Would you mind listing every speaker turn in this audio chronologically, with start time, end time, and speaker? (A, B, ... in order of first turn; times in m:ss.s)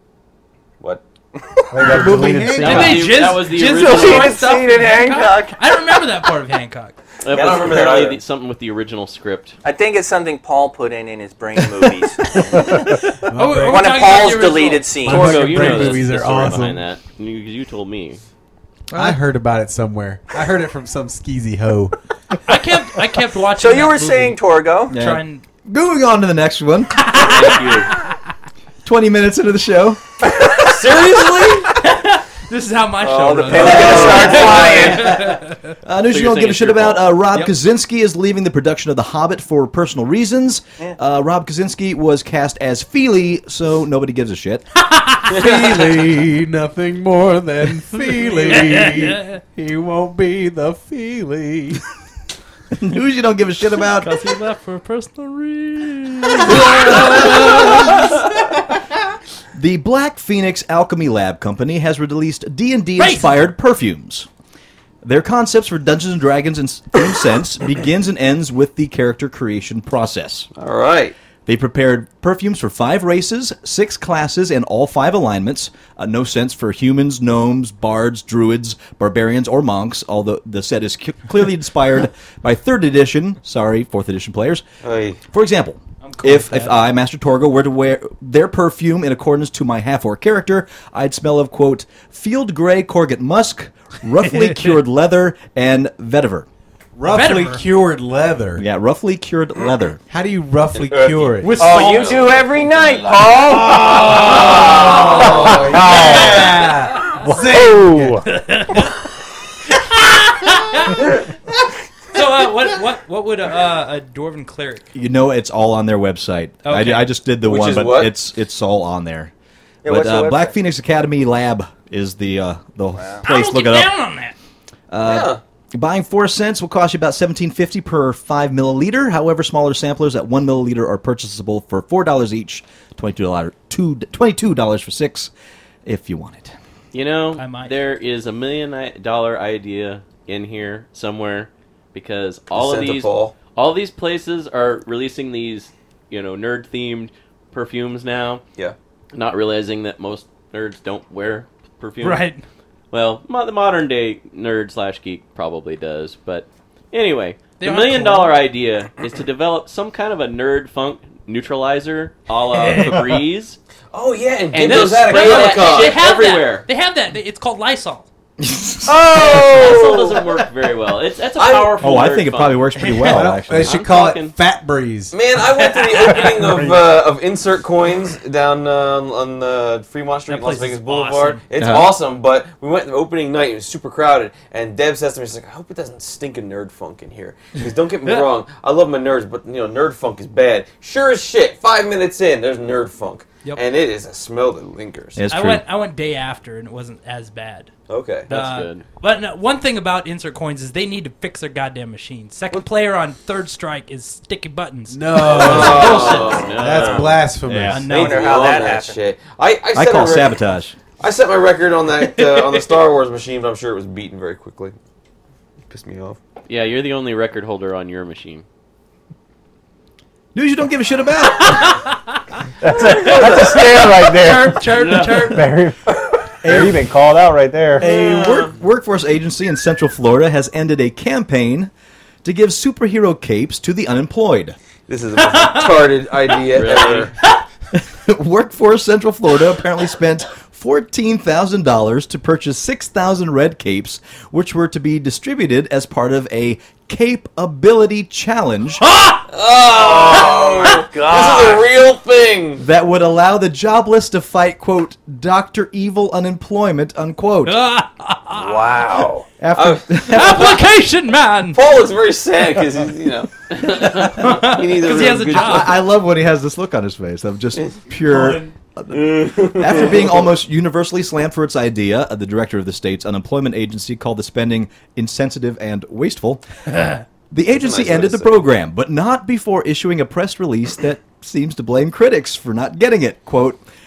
0:01.7-0:03.0 A
0:01.8-0:03.1 B
0:02.6-0:04.4 C
0:02.6-0:07.0 D
0:03.7-0:05.5 E
0:07.2-0:09.5 C
0:07.3-0:08.2 F
0:09.6-0:12.7 E
0:12.8-0:13.9 B
0:13.2-0:15.0 D
0:13.6-0:15.9 E
0:15.0-0:16.8 B
0:15.0-0:18.2 C
0:18.9-0:19.2 G
0:18.9-0:21.9 B
0:22.4-0:24.4 D
0:23.5-0:25.0 E
0:24.9-0:27.0 G
0:24.9-0:25.4 D
0:27.1-0:27.6 D
0:27.2-0:27.9 C
0:28.8-0:30.0 G
0:30.6-0:31.8 F
0:31.8-0:35.7 D
0:33.0-0:35.2 E
0:33.2-0:35.2 F
0:35.8-0:44.6 G
0:36.1-0:37.2 C
0:44.9-0:45.4 D
0:45.3-0:51.8 B
0:45.4-0:45.8 F
0:47.9-0:49.4 D
0:52.7-0:54.2 G
0:53.9-0:58.2 D
0:59.5-1:04.3 G
1:03.0-1:03.4 D
1:05.0-1:10.5 G
1:10.6-1:11.1 F
1:11.4-1:24.6 G
1:24.8-1:25.2 F
1:25.3-1:36.5 G
1:26.0-1:26.9 D
1:34.4-1:34.7 D
1:37.0-1:38.6 B
1:37.0-1:37.6 D
1:38.6-1:40.0 G
1:40.1-1:41.7 B
1:40.8-1:46.7 F
1:41.4-1:46.2 E
1:41.7-1:42.1 A
1:43.6-1:48.2 B
1:44.1-1:45.2 D
1:45.4-1:46.5 A
1:47.2-1:48.2 A
1:48.2-1:48.9 D
1:49.9-1:51.2 D
1:52.1-1:54.8 D
1:54.9-1:59.3 G
1:56.6-1:57.1 D
1:57.4-1:58.1 F
1:59.8-2:00.6 E
1:59.8-2:03.9 G
2:03.0-2:03.2 E
2:03.2-2:04.3 D
2:04.9-2:15.3 G
2:05.0-2:05.4 F
2:15.8-2:16.5 G
2:16.9-2:28.4 C
2:17.4-2:17.8 D
2:22.5-2:23.3 F
2:29.1-2:32.2 C
2:32.0-2:32.4 D
2:32.9-2:43.6 C
2:37.6-2:38.4 D
2:42.5-2:43.2 D
2:43.9-2:46.0 F
2:44.5-2:46.6 C
2:44.8-2:48.1 D
2:48.4-2:49.4 G
2:48.9-2:50.2 F
2:49.4-2:52.9 C
2:51.4-2:51.8 F
2:51.8-2:53.8 G
2:52.8-2:53.2 D
2:53.1-2:55.1 B
2:53.5-2:54.3 C
2:55.1-3:15.2 F
2:55.4-2:56.4 D
2:56.4-2:56.7 A
3:00.3-3:01.4 D
3:01.6-3:01.9 G
3:15.2-3:15.6 G
3:15.3-3:17.7 D
3:17.9-3:18.3 F
3:18.3-3:18.8 C
3:18.3-3:26.4 D
3:24.9-3:27.9 B
3:25.2-3:27.2 F
3:25.3-3:27.2 C
3:27.4-3:27.8 G
3:27.7-3:28.4 D
3:27.9-3:30.4 F
3:27.9-3:29.0 E
3:29.7-3:30.8 G
3:31.0-3:34.8 F
3:32.1-3:32.6 D
3:35.7-3:36.2 F
3:36.5-3:38.4 C
3:40.3-3:41.6 G
3:41.4-3:41.9 D
3:42.6-3:45.8 A
3:43.0-3:45.6 D
3:43.1-3:43.5 F
3:44.7-3:45.4 C
3:46.4-3:47.8 A
3:46.4-3:46.7 G
3:47.8-3:51.7 G
3:47.8-3:48.5 F
3:52.2-3:54.6 G
3:54.9-3:57.1 F
3:55.2-3:55.8 D
3:56.5-3:57.1 C
3:57.7-4:08.8 G
4:08.8-4:09.2 D
4:09.3-4:12.6 F
4:09.7-4:11.6 E
4:12.6-4:17.6 G
4:17.4-4:18.7 D
4:18.3-4:19.2 E
4:18.7-4:20.4 F
4:19.4-4:20.6 G
4:20.0-4:21.6 D
4:21.5-4:25.8 F
4:23.6-4:25.8 D
4:25.3-4:36.4 G
4:28.9-4:30.3 F
4:37.3-4:43.6 G
4:37.6-4:38.5 F